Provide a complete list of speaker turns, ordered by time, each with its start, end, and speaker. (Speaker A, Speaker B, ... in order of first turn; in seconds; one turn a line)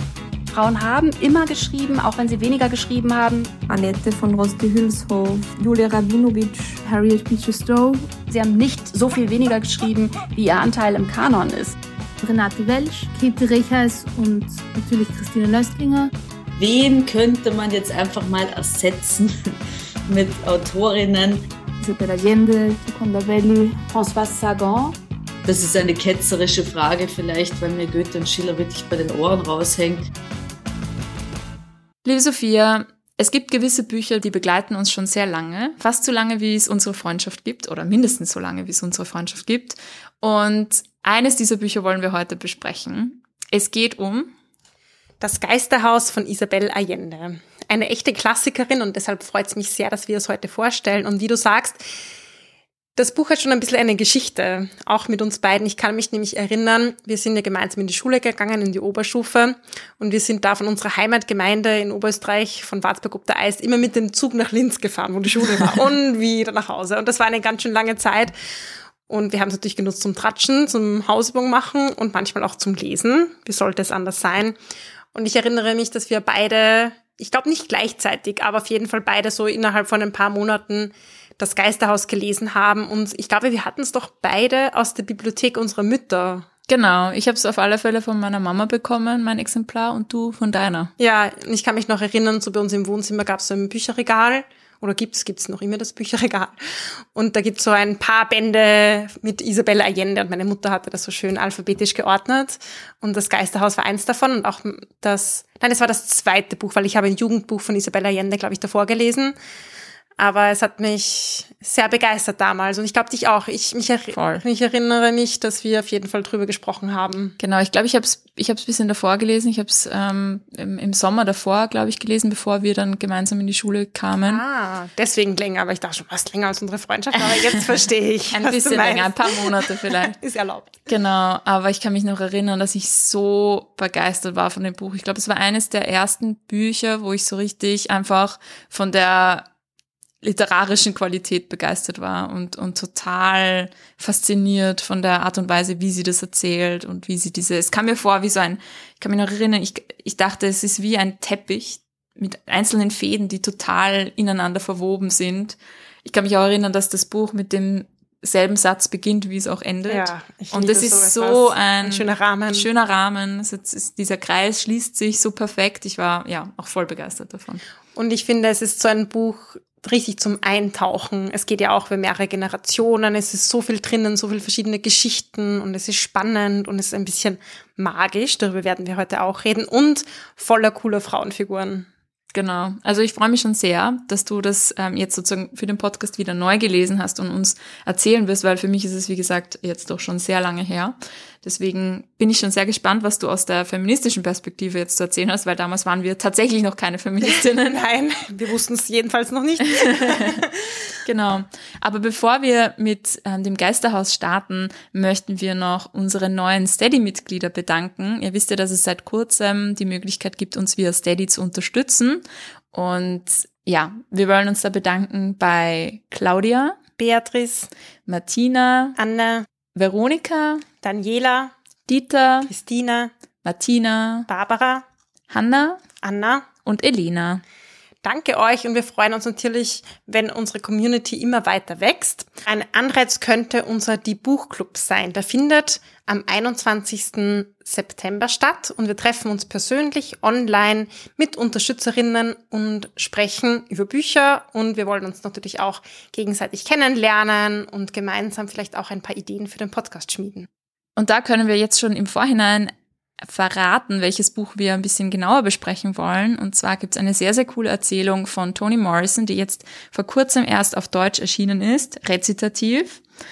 Speaker A: 0.5-3.9
Speaker B: 3.8-6.0
Speaker A: 4.7-11.7
Speaker B: 6.6-8.0
Speaker B: 12.2-16.1
Speaker C: 16.6-19.5
Speaker C: 20.1-21.4
Speaker B: 21.8-23.9
Speaker C: 23.9-24.9
Speaker C: 25.4-30.1
Speaker D: 32.0-44.3
Speaker E: 45.2-51.8
Speaker E: 53.0-68.3
Speaker E: 69.1-74.5
Speaker E: 75.1-86.5
Speaker D: 86.7-90.9
Speaker E: 91.0-109.3
Speaker E: 110.2-117.3
Speaker D: 114.1-114.4
Speaker D: 117.4-124.4
Speaker E: 124.3-130.8
Speaker D: 128.3-130.2
Speaker D: 130.9-139.4
Speaker D: 140.2-167.6
Speaker E: 159.9-162.7
Speaker E: 167.9-181.9
Speaker D: 182.3-197.8
Speaker E: 197.2-200.7
Speaker D: 199.7-200.4
Speaker D: 201.0-216.8
Speaker E: 217.0-217.7
Speaker D: 218.1-219.0
Speaker E: 219.0-219.4
Speaker D: 219.7-220.6
Speaker E: 220.8-221.5
Speaker D: 221.9-222.5
Speaker E: 222.5-223.1
Speaker D: 223.4-224.3
Speaker E: 224.3-224.8
Speaker D: 225.3-225.8
Speaker E: 226.0-226.5
Speaker D: 226.6-227.4
Speaker E: 228.0-250.5
Speaker D: 250.9-263.0